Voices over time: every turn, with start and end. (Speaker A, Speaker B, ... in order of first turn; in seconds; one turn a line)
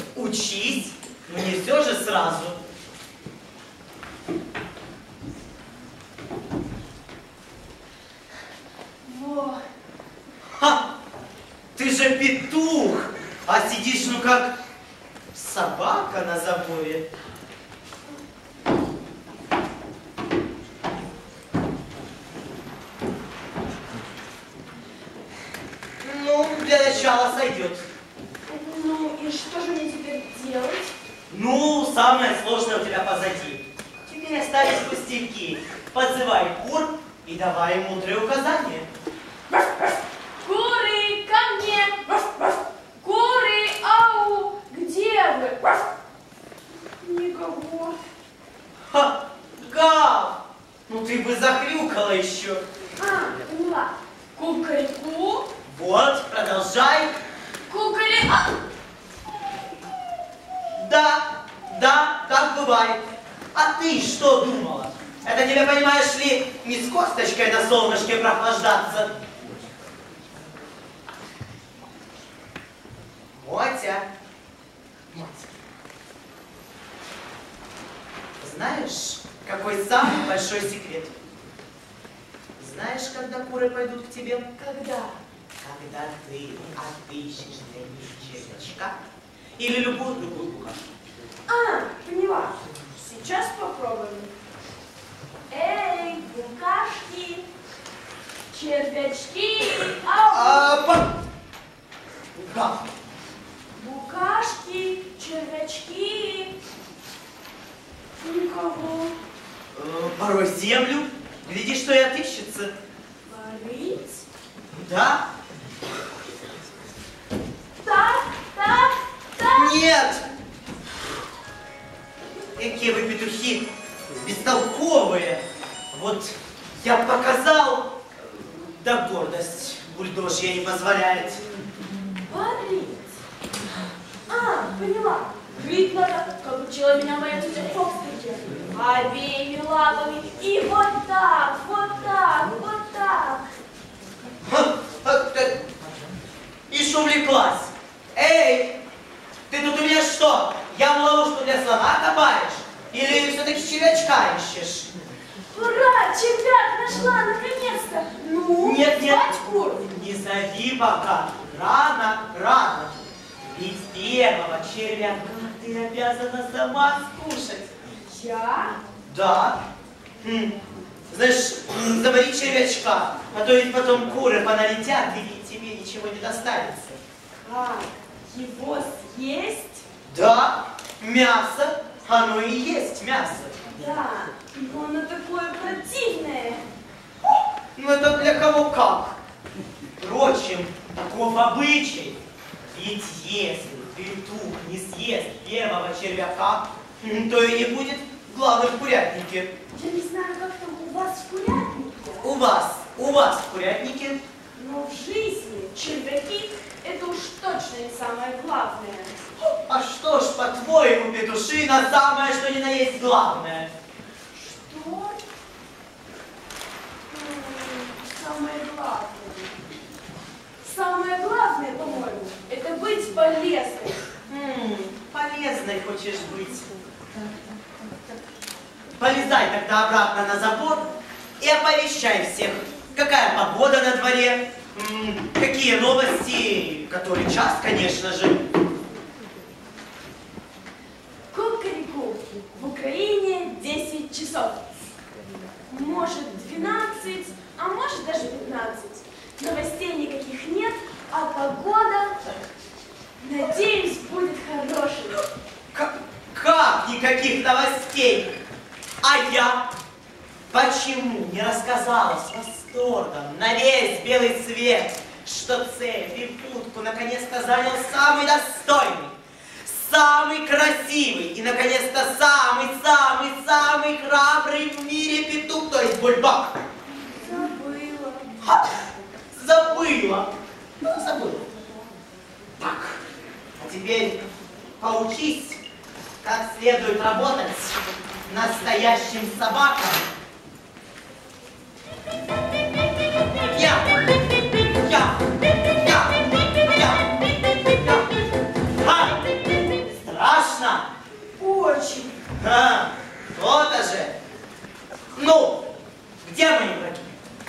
Speaker A: 0.1-2.6
Speaker B: 9.0-9.6
Speaker A: 10.6-10.8
Speaker A: 11.8-14.5
Speaker A: 15.3-17.1
Speaker A: 26.0-27.9
Speaker B: 28.4-30.9
Speaker A: 31.3-38.9
Speaker B: 39.5-45.9
Speaker B: 47.0-48.0
Speaker A: 48.9-52.6
Speaker B: 53.0-55.5
Speaker A: 55.7-57.1
Speaker B: 57.7-58.6
Speaker A: 60.8-69.2
Speaker A: 73.4-74.1
Speaker A: 75.1-75.5
Speaker A: 78.4-81.2
Speaker A: 82.6-84.5
Speaker B: 84.6-85.2
Speaker A: 85.6-89.0
Speaker A: 89.6-90.8
Speaker B: 91.5-94.3
Speaker B: 95.5-97.5
Speaker B: 98.5-100.8
Speaker A: 100.3-101.1
Speaker A: 102.3-102.8
Speaker B: 103.8-106.5
Speaker B: 108.2-109.2
Speaker A: 109.7-112.7
Speaker B: 113.2-114.2
Speaker A: 114.7-115.2
Speaker B: 117.8-120.1
Speaker A: 119.4-120.2
Speaker A: 122.6-123.7
Speaker A: 124.2-127.9
Speaker A: 128.5-131.4
Speaker B: 132.3-133.1
Speaker B: 134.3-143.4
Speaker A: 144.5-145.6
Speaker A: 146.7-148.8
Speaker A: 149.5-154.9
Speaker B: 155.5-159.9
Speaker A: 158.6-167.7
Speaker B: 168.1-168.8
Speaker A: 169.1-169.6
Speaker A: 170.2-170.6
Speaker A: 171.1-177.0
Speaker B: 177.4-179.8
Speaker A: 180.1-183.6
Speaker B: 183.7-186.6
Speaker A: 187.8-189.2
Speaker A: 190.0-199.5
Speaker B: 199.7-202.3
Speaker A: 202.2-204.2
Speaker B: 204.5-209.2
Speaker A: 209.6-213.7
Speaker B: 214.3-215.2
Speaker B: 217.1-219.6
Speaker B: 220.6-224.0
Speaker A: 224.3-226.7
Speaker A: 229.0-238.4
Speaker B: 241.3-244.6
Speaker B: 245.7-252.2
Speaker B: 253.2-255.2
Speaker A: 255.7-258.3
Speaker A: 259.0-259.7
Speaker A: 260.5-276.6
Speaker B: 277.2-278.4
Speaker A: 279.3-280.3
Speaker A: 280.8-281.5
Speaker A: 282.6-283.0
Speaker A: 283.6-284.2
Speaker A: 284.8-285.6
Speaker A: 286.2-290.1
Speaker A: 293.5-293.9
Speaker A: 294.6-297.1
Speaker A: 297.7-298.1
Speaker A: 298.8-299.2
Speaker A: 299.9-300.9
Speaker B: 301.4-302.2
Speaker A: 302.4-304.1
Speaker A: 305.1-305.6
Speaker A: 306.2-307.2